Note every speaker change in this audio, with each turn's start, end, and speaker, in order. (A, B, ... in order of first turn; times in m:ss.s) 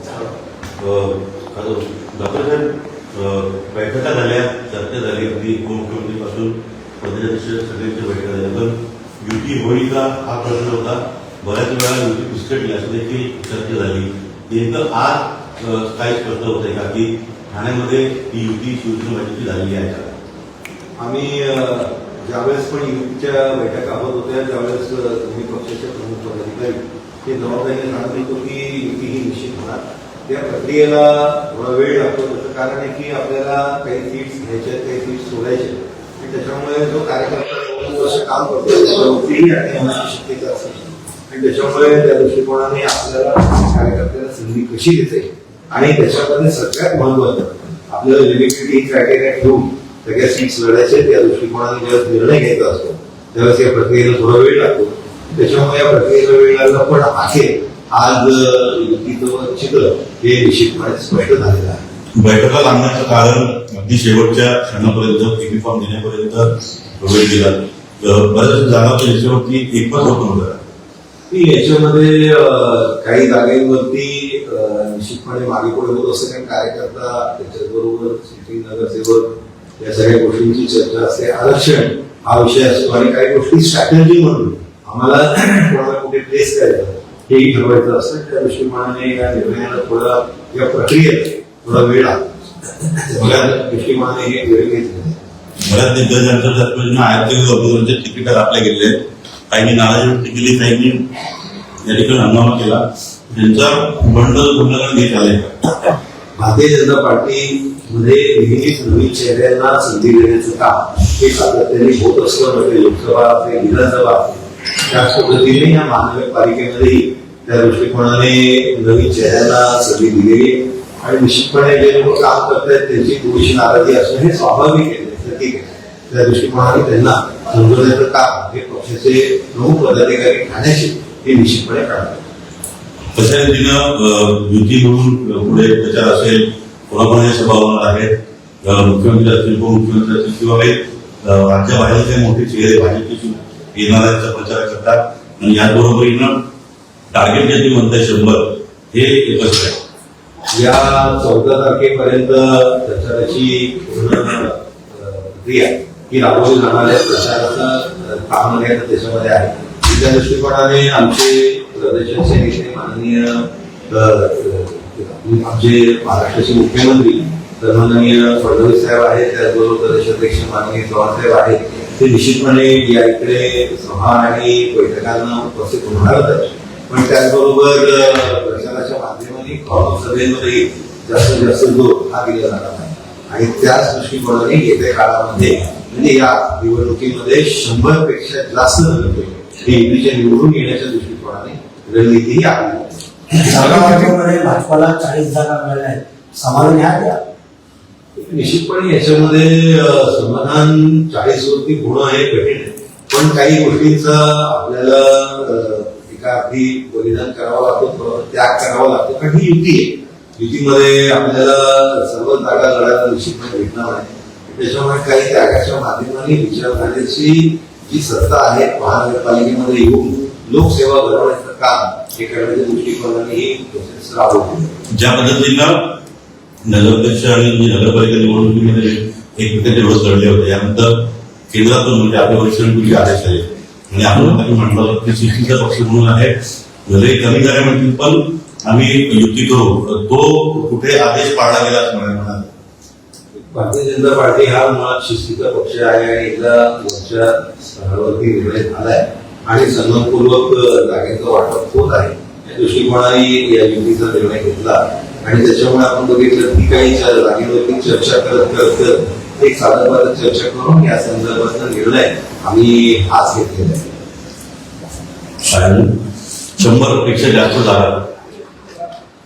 0:00.8-0:20.2 A
0:21.0-1:01.8 B
1:02.2-1:10.6 A
1:11.3-1:35.2 B
1:35.6-1:38.9 A
1:39.5-1:41.0 A
1:41.8-1:45.6 A
1:46.4-2:12.2 B
2:13.1-2:26.3 A
2:27.1-2:29.8 A
2:30.5-3:13.1 B
3:13.4-3:17.2 C
3:18.2-3:44.8 B
3:45.0-3:45.7 A
3:46.6-3:56.4 A
3:56.9-4:02.5 A
4:03.4-4:23.9 B
4:25.4-4:25.9 A
4:26.6-4:28.1 A